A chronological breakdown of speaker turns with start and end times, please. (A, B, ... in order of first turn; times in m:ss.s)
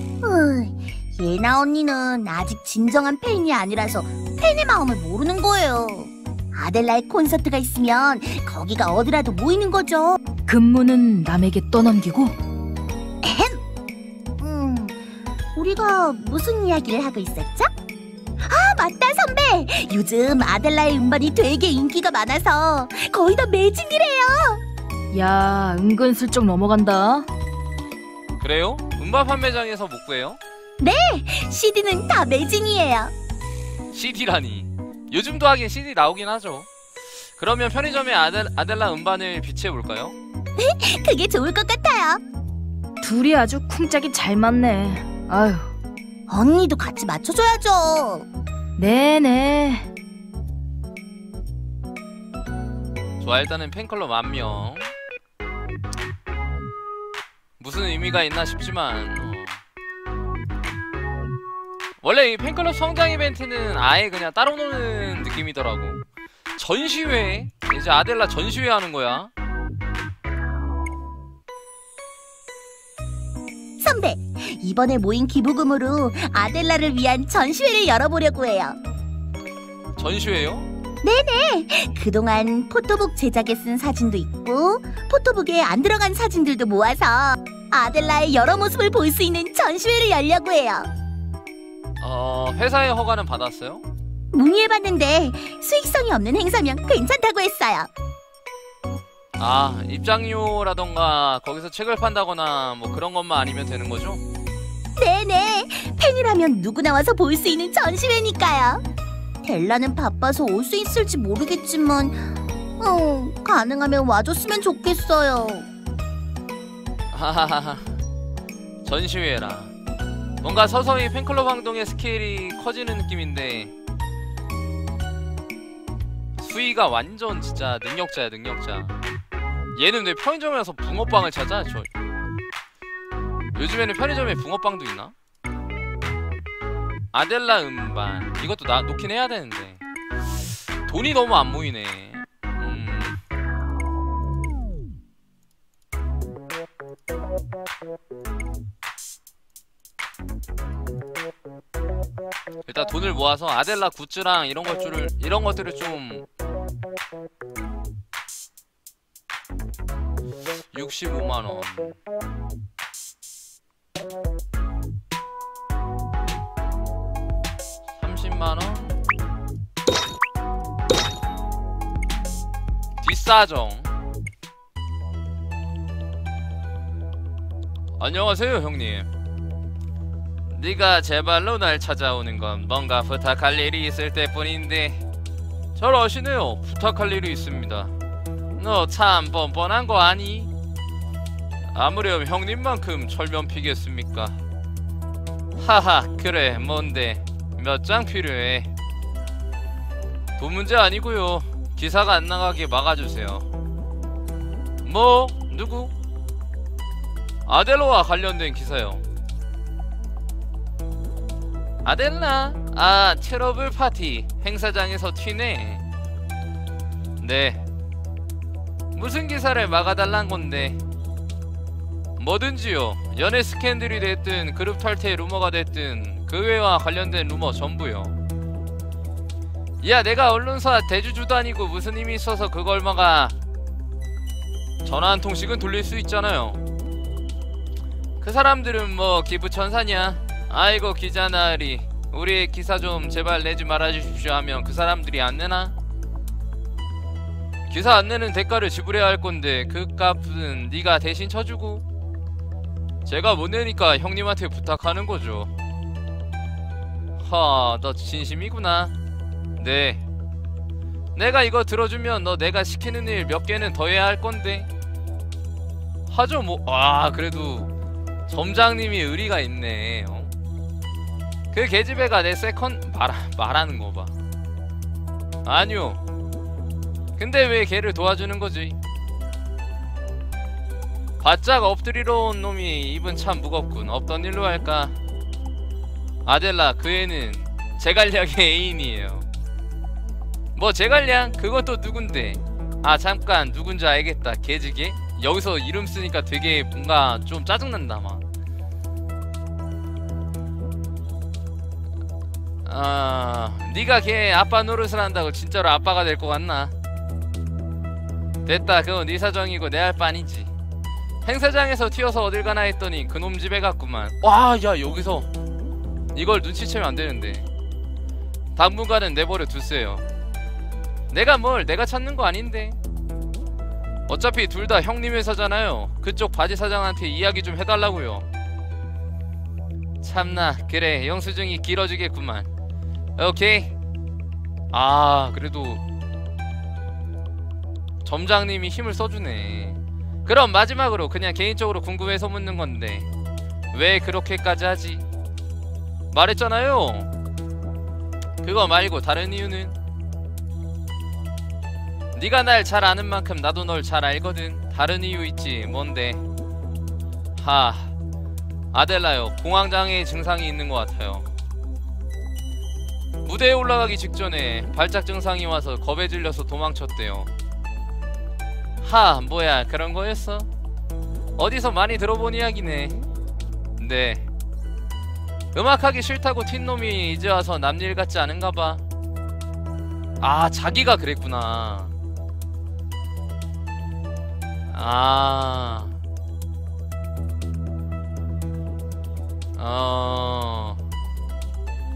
0:00.2-0:10.2 A
0:10.5-0:12.4 B
0:13.2-0:13.6 A
0:14.4-0:14.9 A
0:15.5-0:17.7 A
0:18.4-0:24.6 A
0:25.1-0:27.3 B
0:28.4-0:30.4 C
0:30.8-0:33.1 A
0:33.9-0:36.7 C
0:37.4-0:40.2 C
0:40.6-0:42.2 A
0:43.0-0:45.7 B
0:46.3-0:48.2 A
0:48.8-0:49.9 B
0:53.2-0:54.9 C
0:57.6-0:59.6 C
1:02.0-1:06.0 C
1:06.6-1:09.3 C
1:13.8-1:18.8 A
1:20.0-1:20.7 C
1:21.0-1:30.9 A
1:32.0-1:33.8 C
1:34.3-1:37.9 A
1:39.4-1:44.2 C
1:45.0-1:48.8 A
1:49.4-1:55.7 A
1:57.1-1:57.9 C
1:58.8-1:59.7 C
2:00.4-2:03.7 C
2:06.4-2:09.0 C
2:09.7-2:11.9 C
2:13.5-2:15.1 C
2:17.1-2:19.8 C
2:20.8-2:23.2 C
2:32.7-2:36.2 C
2:40.7-2:41.9 C
2:48.0-2:49.0 C
2:53.0-2:53.9 C
2:58.0-2:59.1 C
3:00.5-3:05.0 C
3:05.7-3:07.9 C
3:08.6-3:10.5 C
3:11.7-3:14.4 C
3:15.6-3:18.7 C
3:20.4-3:23.4 C
3:24.8-3:25.9 C
3:27.4-3:29.0 C
3:31.8-3:35.8 C
3:37.2-3:37.6 C
3:38.9-3:40.8 C
3:42.2-3:48.2 C
3:49.8-3:53.3 C
3:54.8-3:56.6 C
3:58.2-4:05.7 C
4:07.7-4:11.8 C
4:13.0-4:15.5 C
4:17.2-4:18.9 C
4:19.6-4:20.0 C
4:21.1-4:24.7 C
4:26.1-4:27.7 C
4:28.3-4:30.3 C
4:31.5-4:34.1 C
4:35.4-4:36.0 C
4:37.2-4:38.8 C
4:41.2-4:44.9 C
4:46.2-4:49.3 C
4:50.5-4:58.2 C
5:02.6-5:06.7 C
5:08.4-5:10.5 C
5:11.2-5:15.3 C
5:16.1-5:17.5 C
5:18.6-5:20.0 C
5:21.1-5:22.8 C
5:24.1-5:28.2 C
5:30.0-5:32.5 C
5:33.2-5:33.7 C
5:34.7-5:35.8 C
5:38.0-5:43.1 C
5:43.7-5:45.0 C
5:46.1-5:47.1 C
5:48.4-5:49.8 C
5:52.1-5:56.2 C
5:57.4-5:57.9 C
5:58.7-6:01.3 C
6:03.2-6:07.3 C
6:08.8-6:10.5 C
6:11.4-6:13.0 C
6:13.8-6:14.3 C
6:15.5-6:18.8 C
6:20.2-6:21.9 C
6:24.7-6:25.9 C
6:29.6-6:30.8 C